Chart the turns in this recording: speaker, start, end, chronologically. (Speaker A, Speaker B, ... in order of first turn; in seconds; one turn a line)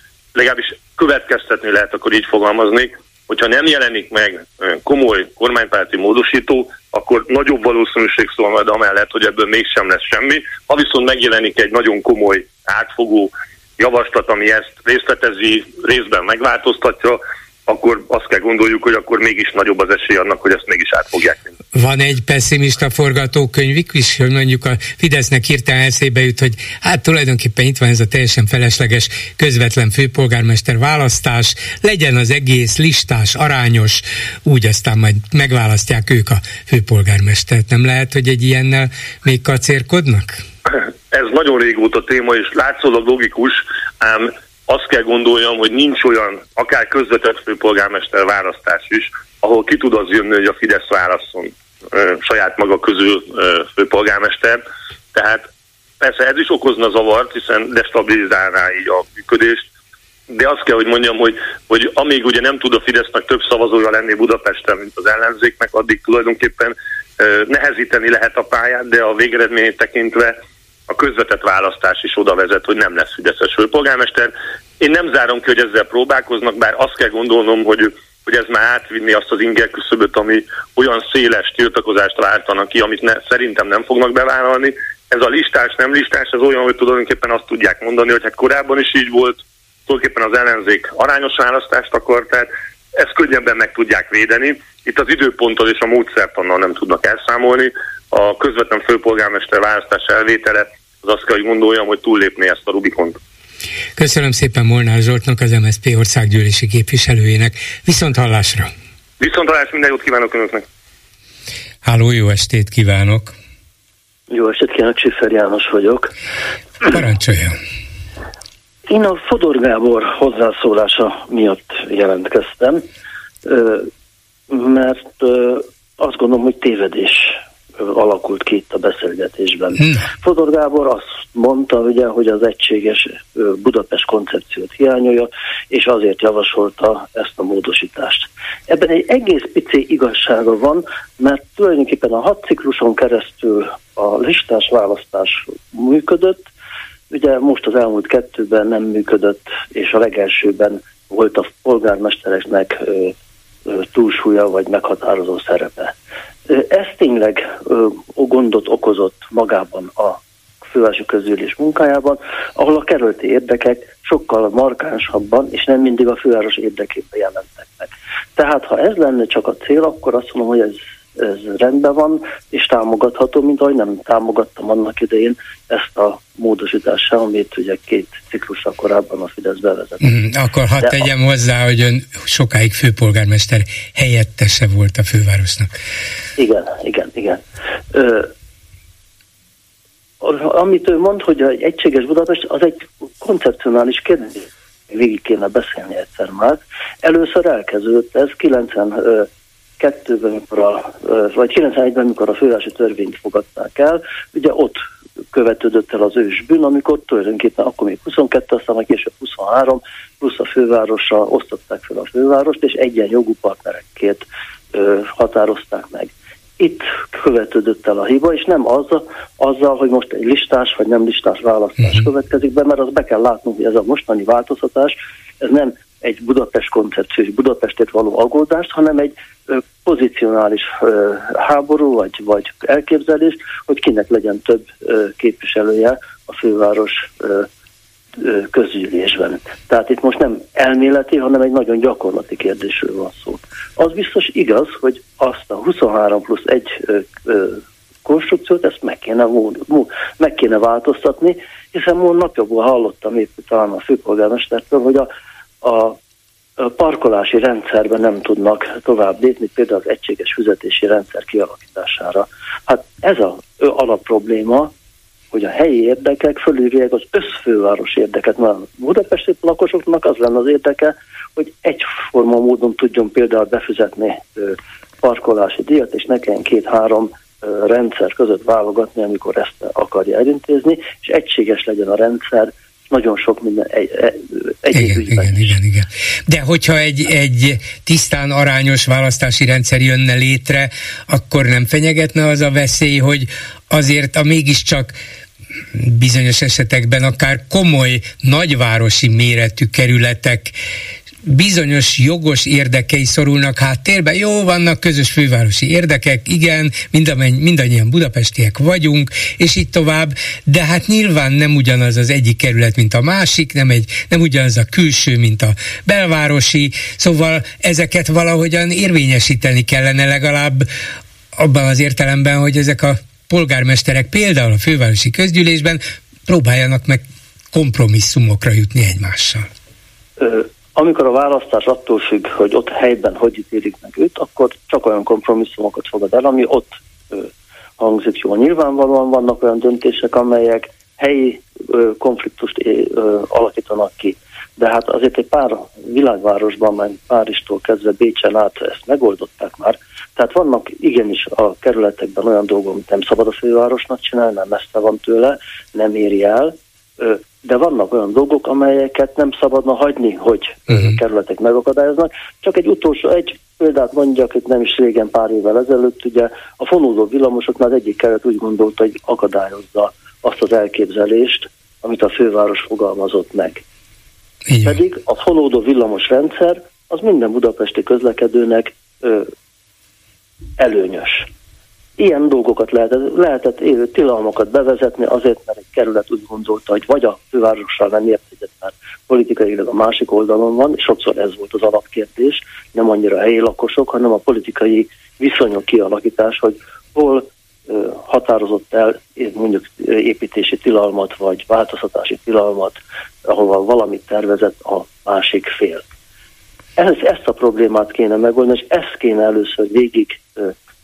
Speaker A: 0.3-21.5
Speaker B: 21.7-40.4
Speaker A: 40.7-54.6
Speaker A: 55.1-55.5
Speaker A: 56.0-59.7
Speaker A: 60.3-103.2
Speaker B: 104.0-108.7
Speaker A: 109.2-110.6
Speaker B: 111.8-113.3
Speaker C: 114.3-116.1
Speaker B: 116.9-117.6
Speaker C: 118.9-122.8
Speaker C: 123.4-123.9
Speaker C: 124.5-146.4
Speaker C: 147.1-153.1
Speaker C: 153.7-155.9
Speaker C: 156.5-180.1
Speaker B: 180.0-185.7
Speaker C: 186.4-188.3
Speaker C: 190.2-199.3
Speaker C: 199.8-237.5
Speaker C: 238.2-255.1
Speaker C: 255.6-256.0
Speaker C: 256.6-264.7
Speaker C: 265.3-285.6
Speaker B: 284.7-294.9
Speaker B: 295.7-300.5
Speaker B: 301.2-320.7
Speaker B: 321.4-327.0
Speaker B: 327.5-329.5
Speaker C: 330.2-373.6
Speaker B: 374.5-374.8
Speaker C: 374.6-379.3
Speaker C: 380.6-381.3
Speaker C: 382.0-405.8
Speaker C: 406.8-410.5